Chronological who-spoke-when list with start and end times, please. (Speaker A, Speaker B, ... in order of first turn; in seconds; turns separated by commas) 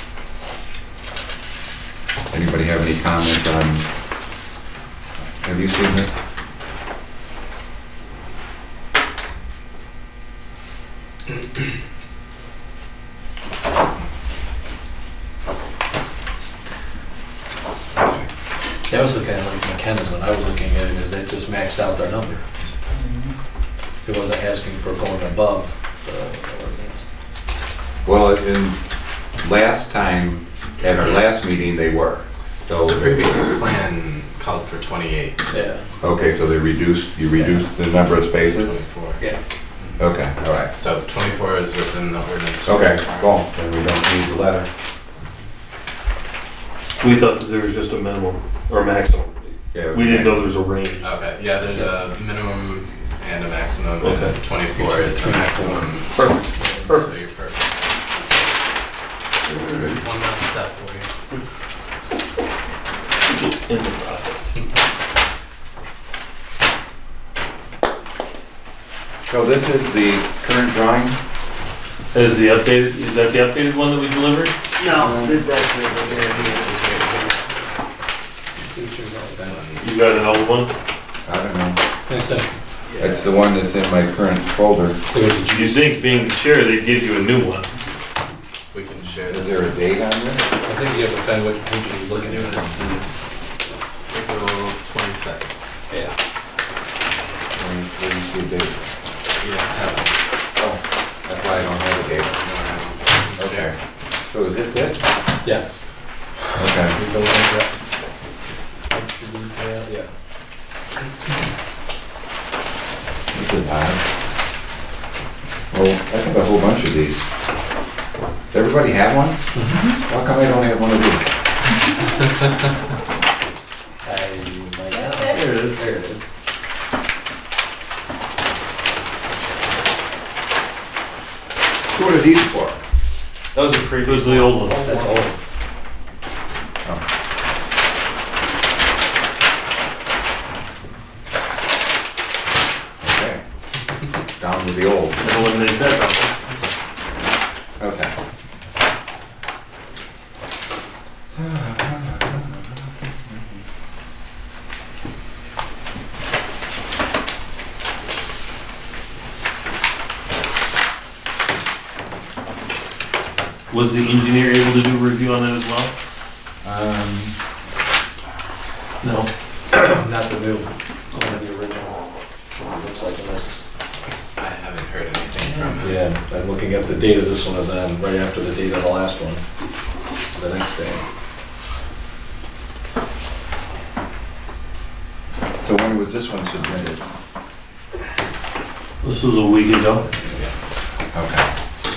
Speaker A: 2.3-3.9, Speaker A: 5.4-6.2, Speaker A: 18.0-18.3, Speaker B: 18.9-22.4, Speaker A: 22.9-23.3, Speaker B: 24.0-27.1, Speaker A: 28.0-28.8, Speaker A: 29.4-33.5, Speaker C: 30.9-31.2, Speaker C: 32.9-35.5, Speaker B: 35.5-35.9, Speaker A: 36.0-38.8, Speaker C: 38.4-39.2, Speaker C: 39.8-40.1, Speaker A: 40.0-40.7, Speaker C: 40.7-43.5, Speaker A: 42.6-44.7, Speaker D: 47.0-51.1, Speaker A: 49.7-50.5, Speaker C: 51.0-56.3, Speaker D: 54.0-54.4, Speaker B: 54.8-55.9, Speaker D: 56.1-57.0, Speaker B: 56.6-56.9, Speaker C: 56.8-58.5, Speaker A: 59.5-60.0, Speaker C: 60.0-61.1, Speaker D: 63.3-64.6, Speaker A: 69.3-71.2, Speaker D: 72.1-74.5, Speaker E: 74.8-76.9, Speaker A: 74.9-75.4, Speaker C: 75.8-77.6, Speaker B: 78.6-79.6, Speaker C: 79.3-80.4, Speaker D: 79.8-80.7, Speaker A: 81.2-81.8, Speaker B: 82.1-83.2, Speaker A: 83.0-85.0, Speaker B: 85.1-85.8, Speaker D: 85.5-87.7, Speaker C: 88.7-89.8, Speaker A: 89.3-90.5, Speaker B: 90.6-93.0, Speaker C: 92.1-93.3, Speaker C: 94.1-95.5, Speaker A: 97.5-98.8, Speaker C: 99.4-100.2, Speaker A: 100.6-102.3, Speaker C: 101.6-103.7, Speaker A: 103.4-105.1, Speaker B: 105.4-105.9, Speaker A: 106.6-107.0, Speaker B: 106.9-107.7, Speaker B: 108.9-110.1, Speaker A: 113.3-114.0, Speaker A: 115.7-117.2, Speaker A: 118.5-119.4, Speaker B: 119.5-120.0, Speaker A: 120.0-121.3, Speaker B: 124.0-126.2, Speaker E: 125.0-125.4, Speaker D: 125.2-125.7, Speaker A: 131.9-132.8, Speaker D: 133.5-134.8, Speaker A: 134.7-135.1, Speaker B: 134.7-135.4, Speaker A: 143.0-143.4, Speaker A: 144.4-145.3, Speaker D: 145.2-146.3, Speaker A: 147.8-148.1, Speaker A: 151.3-153.6, Speaker D: 163.7-165.9, Speaker A: 166.6-167.3, Speaker D: 169.0-169.3, Speaker B: 169.7-172.0, Speaker B: 172.6-173.7, Speaker C: 174.4-176.0, Speaker B: 175.4-179.4, Speaker B: 180.3-181.1, Speaker A: 185.6-187.0, Speaker D: 189.0-190.1, Speaker B: 190.0-190.5, Speaker A: 191.1-191.5